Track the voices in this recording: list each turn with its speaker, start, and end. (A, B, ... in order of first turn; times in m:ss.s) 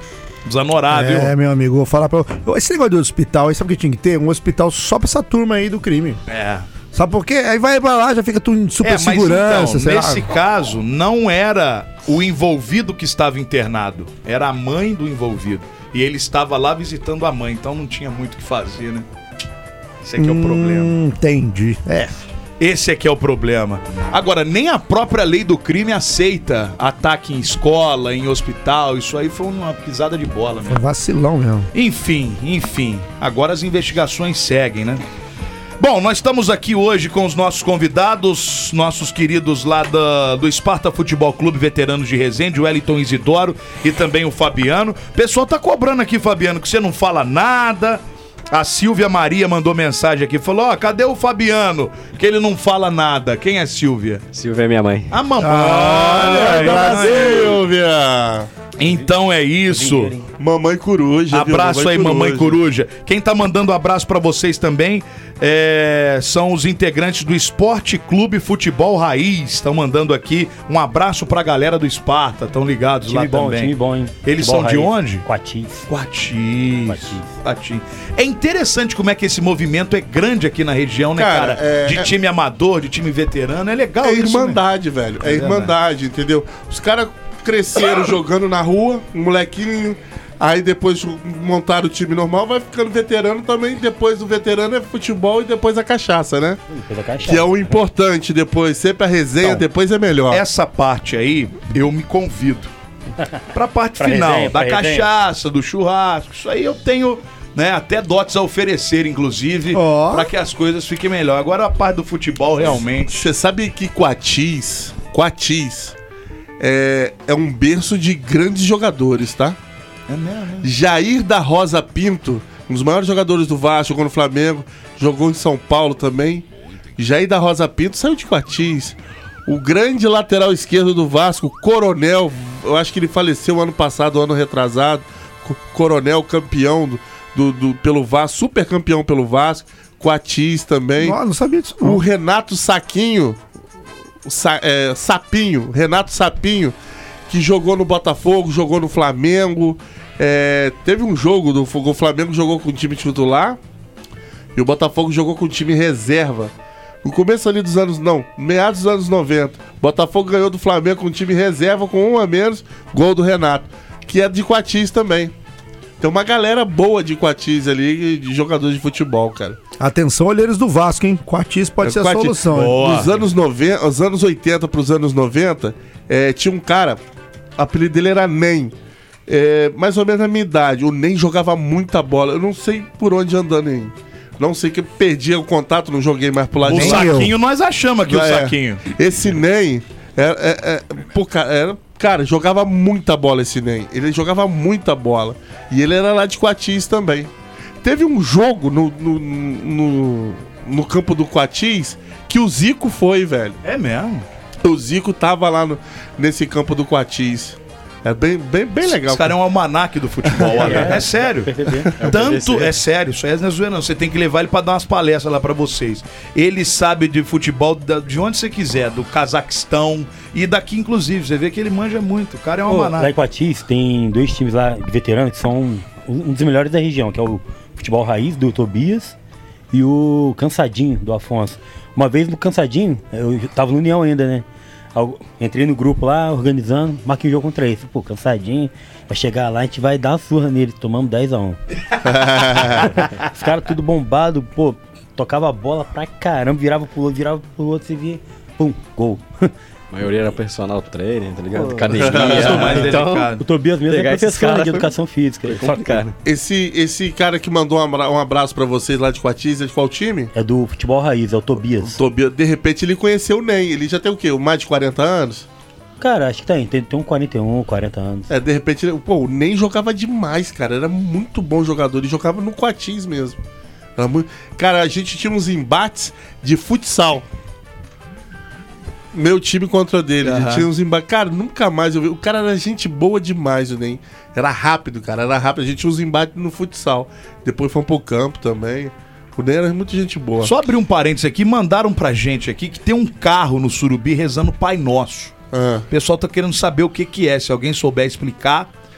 0:00.4-0:01.3 A
0:00.9-0:06.2 B
0:06.3-0:06.7 A
0:06.9-0:10.3 B
0:08.8-0:19.0 A
0:20.0-0:20.9 A
0:20.2-0:22.2 B
0:22.6-0:30.8 A
0:30.6-0:31.7 B
0:31.7-0:35.0 A
0:35.8-0:54.2 A
0:54.3-0:55.1 C
0:55.1-0:57.6 A
0:55.4-0:57.5 B
0:55.9-0:58.5 D
0:58.8-1:00.1 A
0:59.7-1:00.3 E
1:00.4-1:02.6 D
1:01.3-1:15.2 A
1:13.1-1:15.9 E
1:15.9-1:24.6 A
1:16.9-1:17.3 E
1:21.2-1:22.1 D
1:24.0-1:36.6 D
1:25.2-1:25.7 A
1:36.7-1:37.4 E
1:37.2-1:40.4 D
1:40.3-1:42.7 A
1:43.5-1:53.1 A
1:44.0-1:45.1 E
1:49.7-1:50.3 B
1:53.1-1:56.0 D
1:56.6-1:59.6 D
2:00.1-2:00.7 A
2:00.6-2:06.4 D
2:07.0-2:09.0 D
2:09.5-2:21.2 D
2:21.0-2:22.0 B
2:21.8-2:23.4 D
2:24.2-2:26.7 D
2:27.3-2:33.6 D
2:34.6-2:45.3 D
2:46.0-2:49.6 D
2:49.8-2:53.0 B
2:51.8-2:57.0 D
2:52.5-2:53.2 A
2:57.6-2:58.7 D
2:59.3-3:07.2 D
3:06.6-3:08.8 A
3:06.6-3:07.3 B
3:08.1-3:17.3 D
3:17.8-3:23.6 D
3:23.6-3:24.2 A
3:24.6-3:29.4 D
3:28.9-3:43.1 A
3:30.2-3:31.0 D
3:30.6-3:31.9 E
3:32.0-3:32.8 C
3:42.7-3:49.2 E
3:49.7-4:01.6 E
4:02.0-4:03.0 D
4:02.7-4:09.5 E
4:09.9-4:13.4 C
4:11.5-4:16.1 E
4:12.0-4:13.4 A
4:12.0-4:12.8 D
4:13.9-4:14.9 C
4:15.4-4:16.1 C
4:16.2-4:20.3 D
4:20.3-4:22.0 E
4:21.9-4:25.4 D
4:26.0-4:28.3 E
4:28.3-4:33.4 D
4:34.0-4:37.2 D
4:39.1-4:50.5 D
4:40.2-4:40.7 A
4:50.4-4:55.3 A
4:55.5-4:55.9 D
4:55.9-4:58.7 A